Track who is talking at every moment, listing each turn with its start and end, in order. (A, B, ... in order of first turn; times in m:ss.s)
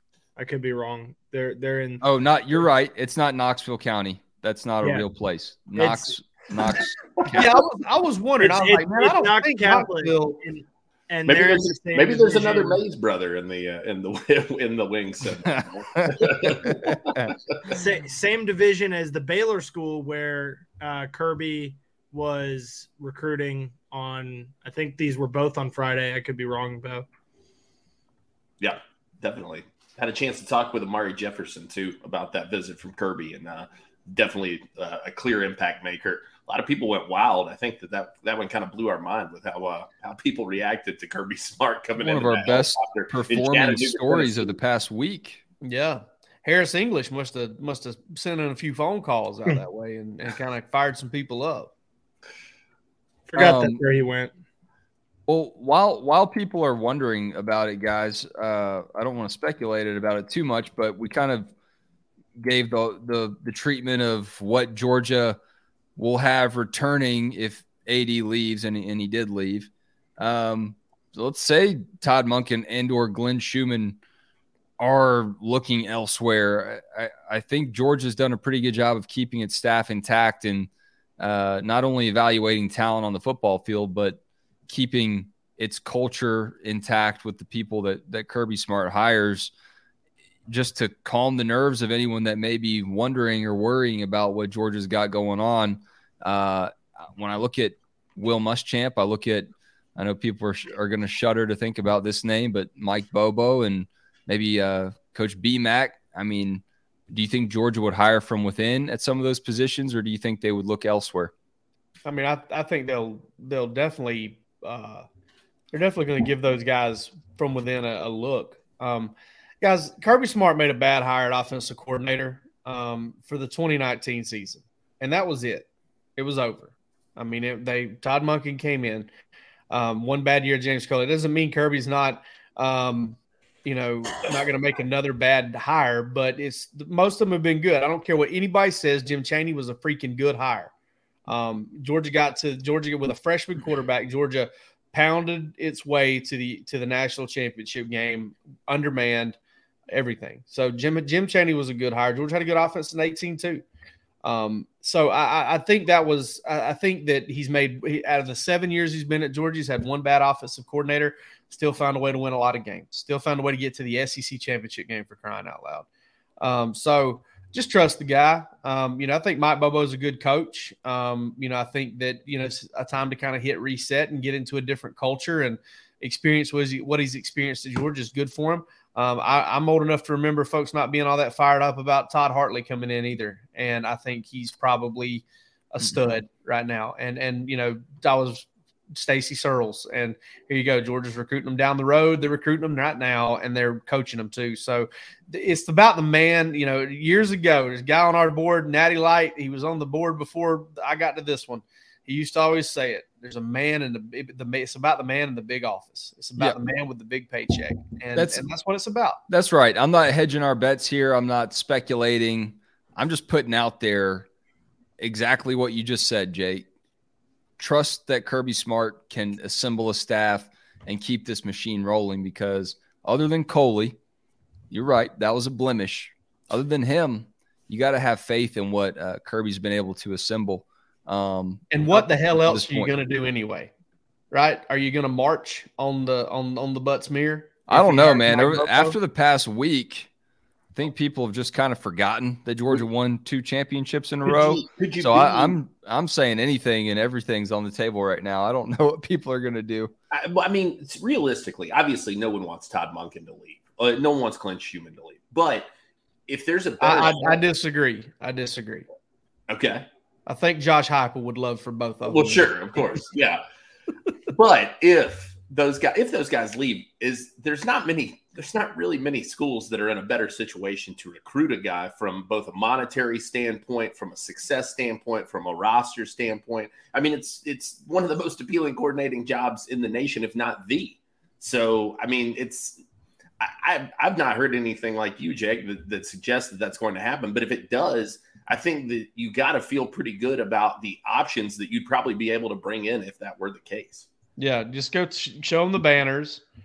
0:00.4-0:02.0 A
0:02.0-0:07.5 B
0:05.8-0:06.0 A
0:07.3-0:10.4 C
0:08.4-0:12.8 A
0:11.2-0:17.6 D
0:15.4-0:17.3 B
0:17.7-0:27.1 A
0:28.6-0:44.6 D
0:42.0-0:45.4 B
0:45.6-0:51.7 C
0:53.3-0:54.3 A
0:53.4-0:53.8 B
0:55.3-1:01.5 B
1:02.4-1:05.4 B
1:06.0-1:14.0 B
1:14.8-1:29.5 B
1:30.5-1:51.3 B
1:52.0-1:55.0 C
1:55.7-2:09.1 C
2:09.7-2:20.7 C
2:21.3-2:29.4 C
2:29.9-2:33.6 C
2:34.2-2:45.9 C
2:46.4-3:29.2 C
3:28.1-3:28.4 B
3:29.3-3:34.3 B
3:35.0-3:36.7 B
3:37.6-3:44.0 B
3:44.7-3:53.0 B
3:51.7-3:53.7 C
3:54.3-3:59.0 C
3:57.7-4:00.1 B
4:00.7-4:09.9 B
4:04.2-4:05.6 D
4:10.1-4:15.7 D
4:16.3-4:17.4 D
4:16.8-4:18.9 C
4:19.5-4:19.9 D
4:20.2-4:23.0 C
4:22.0-4:23.4 D
4:24.3-4:42.8 D
4:43.4-4:54.1 D
4:54.4-4:56.4 C